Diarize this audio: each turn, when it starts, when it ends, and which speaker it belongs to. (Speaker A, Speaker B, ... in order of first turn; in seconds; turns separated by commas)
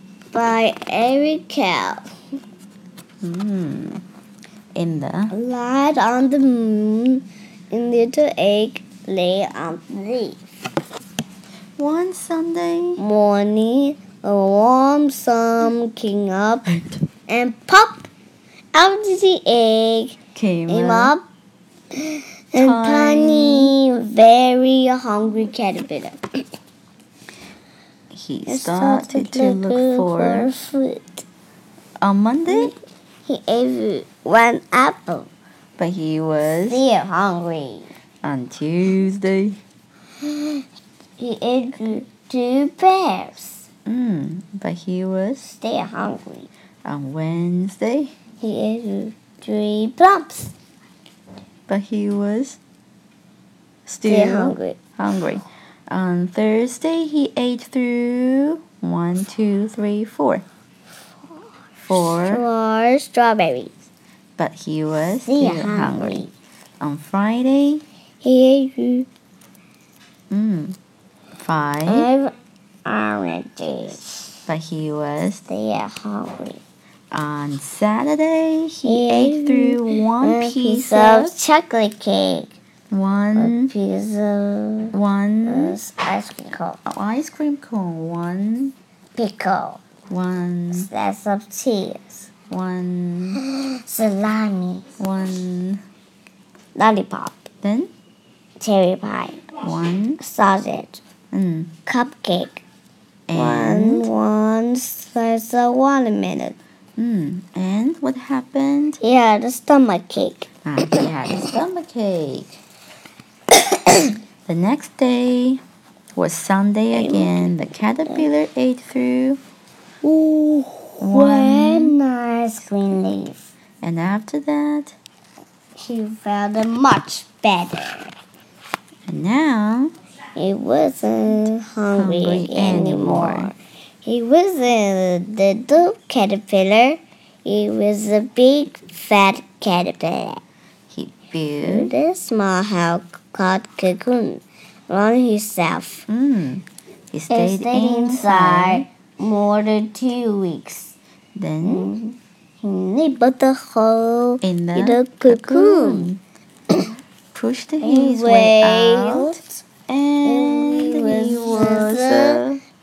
Speaker A: 0.3-2.0, Speaker B: 3.2-4.0, Speaker B: 4.7-5.3, Speaker A: 5.3-10.6, Speaker B: 11.8-13.0, Speaker A: 13.0-18.1, Speaker A: 18.7-21.2, Speaker B: 20.3-21.1, Speaker A: 21.9-26.2, Speaker B: 22.6-23.7, Speaker B: 28.1-30.5, Speaker A: 28.5-31.2, Speaker B: 32.0-32.7, Speaker A: 32.5-35.3, Speaker B: 35.8-36.8, Speaker A: 36.7-37.9, Speaker B: 38.2-39.6, Speaker A: 40.2-40.6, Speaker A: 41.2-43.7, Speaker B: 43.9-45.5, Speaker A: 45.4-46.5, Speaker B: 46.8-48.1, Speaker A: 48.4-50.5, Speaker B: 51.7-52.6, Speaker B: 53.9-60.4, Speaker A: 54.0-54.8, Speaker B: 61.8-62.4, Speaker A: 62.3-63.7, Speaker B: 64.4-66.2, Speaker A: 65.2-66.3, Speaker B: 66.8-67.8, Speaker A: 68.2-69.1, Speaker B: 70.3-70.8, Speaker B: 71.4-72.1, Speaker A: 71.8-72.3, Speaker A: 72.8-74.2, Speaker B: 74.5-75.4, Speaker A: 75.5-76.6, Speaker B: 77.1-81.3, Speaker A: 78.8-82.5, Speaker B: 82.9-83.7, Speaker A: 83.3-84.9, Speaker B: 84.9-85.8, Speaker A: 85.5-86.8, Speaker B: 86.8-88.7, Speaker A: 89.1-89.8, Speaker B: 90.1-90.9, Speaker A: 90.7-92.3, Speaker B: 92.5-93.4, Speaker A: 93.5-94.9, Speaker B: 95.0-95.8, Speaker A: 96.7-97.5, Speaker B: 97.6-97.9, Speaker A: 98.6-99.4, Speaker B: 99.6-100.2, Speaker A: 100.2-101.0, Speaker B: 101.3-101.7, Speaker A: 101.8-102.6, Speaker B: 103.3-104.1, Speaker A: 103.3-106.6, Speaker B: 107.0-109.0, Speaker A: 109.0-111.0, Speaker B: 110.6-112.6, Speaker A: 113.5-114.1, Speaker B: 114.5-115.6, Speaker B: 116.2-119.4, Speaker A: 116.9-117.5, Speaker A: 120.0-123.5, Speaker B: 121.0-121.9, Speaker B: 123.8-124.9, Speaker A: 125.8-128.1, Speaker B: 129.1-129.9, Speaker A: 130.3-140.4, Speaker B: 131.9-133.5, Speaker B: 140.9-141.9, Speaker A: 141.6-146.0, Speaker B: 146.1-148.8, Speaker A: 147.3-150.9, Speaker B: 151.3-151.9, Speaker A: 151.6-156.1, Speaker B: 154.4-156.2, Speaker B: 157.3-162.6, Speaker A: 157.8-159.6, Speaker A: 160.2-162.4